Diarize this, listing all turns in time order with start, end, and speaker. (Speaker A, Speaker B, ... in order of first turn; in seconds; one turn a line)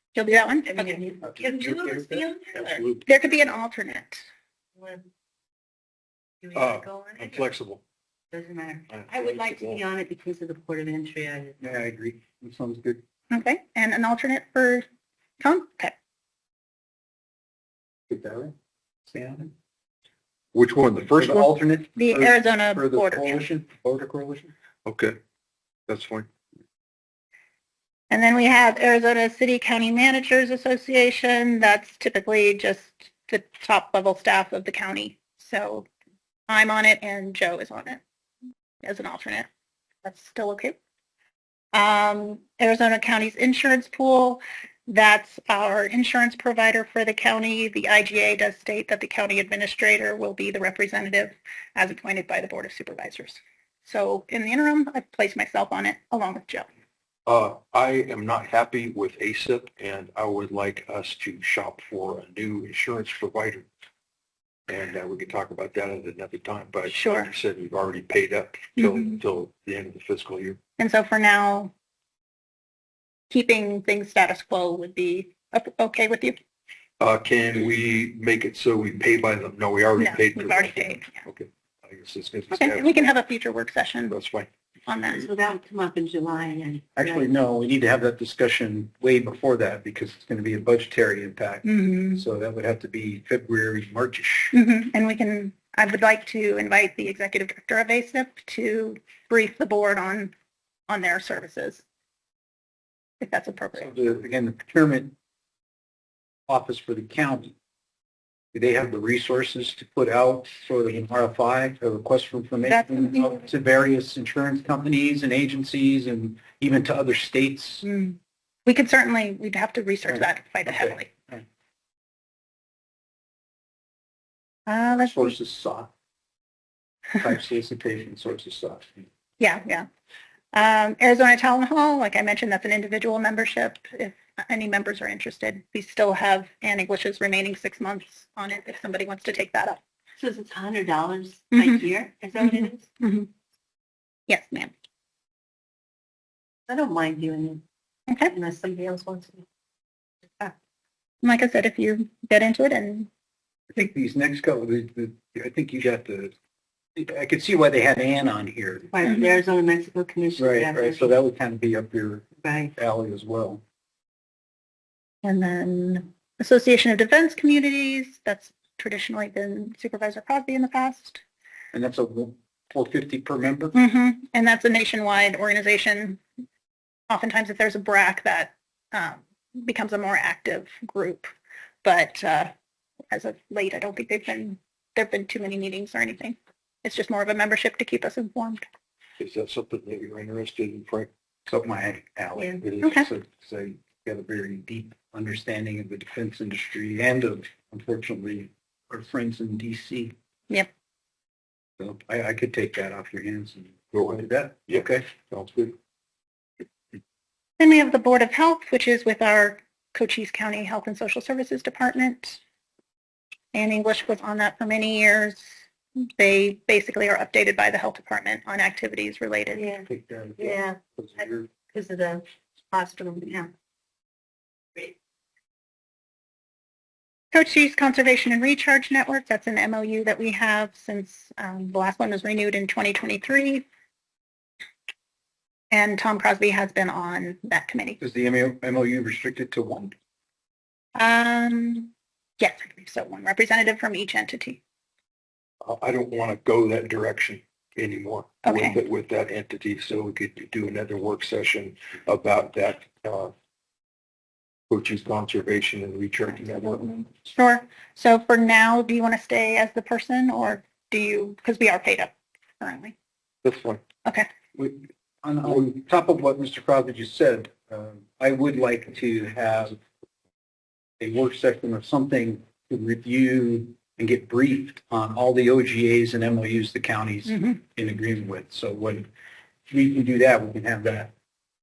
Speaker A: 0.1-1.0
Speaker B: 0.7-2.9
Speaker C: 1.2-2.2
Speaker D: 2.6-3.0
Speaker A: 3.0-4.2
Speaker B: 4.8-5.0
Speaker B: 6.4-7.5
Speaker D: 6.5-7.8
Speaker B: 8.3-11.6
Speaker D: 8.9-9.8
Speaker C: 11.6-13.0
Speaker A: 13.3-14.8
Speaker A: 15.4-15.9
Speaker C: 18.1-18.5
Speaker C: 19.1-19.5
Speaker D: 20.5-21.5
Speaker C: 21.2-24.5
Speaker A: 21.9-23.4
Speaker D: 24.9-25.2
Speaker D: 25.9-26.3
Speaker A: 28.1-35.9
Speaker A: 36.5-38.0
Speaker A: 38.8-39.5
Speaker A: 40.0-40.8
Speaker A: 41.7-56.7
Speaker D: 57.3-63.7
Speaker D: 64.7-70.6
Speaker A: 66.9-67.3
Speaker A: 68.8-69.2
Speaker A: 70.8-71.7
Speaker A: 73.3-76.4
Speaker D: 77.0-83.1
Speaker A: 80.0-81.2
Speaker A: 82.5-84.2
Speaker D: 84.1-84.5
Speaker A: 84.9-85.3
Speaker B: 85.1-87.3
Speaker C: 87.0-94.5
Speaker A: 91.7-92.2
Speaker A: 94.5-100.3
Speaker A: 100.9-101.8
Speaker A: 103.2-104.0
Speaker C: 103.8-105.2
Speaker C: 106.5-107.5
Speaker C: 108.5-117.9
Speaker A: 112.7-113.4
Speaker A: 117.8-121.1
Speaker C: 120.0-121.5
Speaker A: 124.7-125.4
Speaker C: 125.0-125.9
Speaker C: 127.2-129.0
Speaker A: 129.4-129.9
Speaker A: 130.5-139.8
Speaker B: 140.2-142.8
Speaker A: 141.5-143.3
Speaker A: 144.3-144.7
Speaker B: 146.7-147.6
Speaker A: 148.1-148.3
Speaker B: 148.2-149.4
Speaker A: 151.2-153.1
Speaker C: 153.7-156.3
Speaker C: 157.0-158.9
Speaker B: 158.9-161.1
Speaker A: 159.0-159.4
Speaker C: 160.4-163.6
Speaker B: 162.4-162.7
Speaker A: 165.2-171.2
Speaker C: 171.7-173.8
Speaker A: 173.7-176.2
Speaker A: 177.1-181.3
Speaker A: 181.8-182.5
Speaker A: 183.1-188.6
Speaker D: 189.2-191.1
Speaker C: 191.5-200.2
Speaker A: 192.8-193.1
Speaker C: 201.8-205.1
Speaker D: 203.9-205.8
Speaker A: 207.6-212.4
Speaker A: 213.5-215.6
Speaker A: 216.2-219.7
Speaker B: 219.5-219.9
Speaker C: 219.9-221.5
Speaker B: 220.4-223.5
Speaker A: 227.3-233.7
Speaker A: 235.7-238.0
Speaker C: 238.0-239.9
Speaker A: 241.0-244.6
Speaker D: 245.6-253.3
Speaker A: 248.4-248.8
Speaker D: 254.7-257.0
Speaker A: 256.3-262.9
Speaker D: 263.4-263.8
Speaker C: 264.6-269.8
Speaker C: 271.0-279.1
Speaker A: 277.3-277.6
Speaker C: 279.7-281.1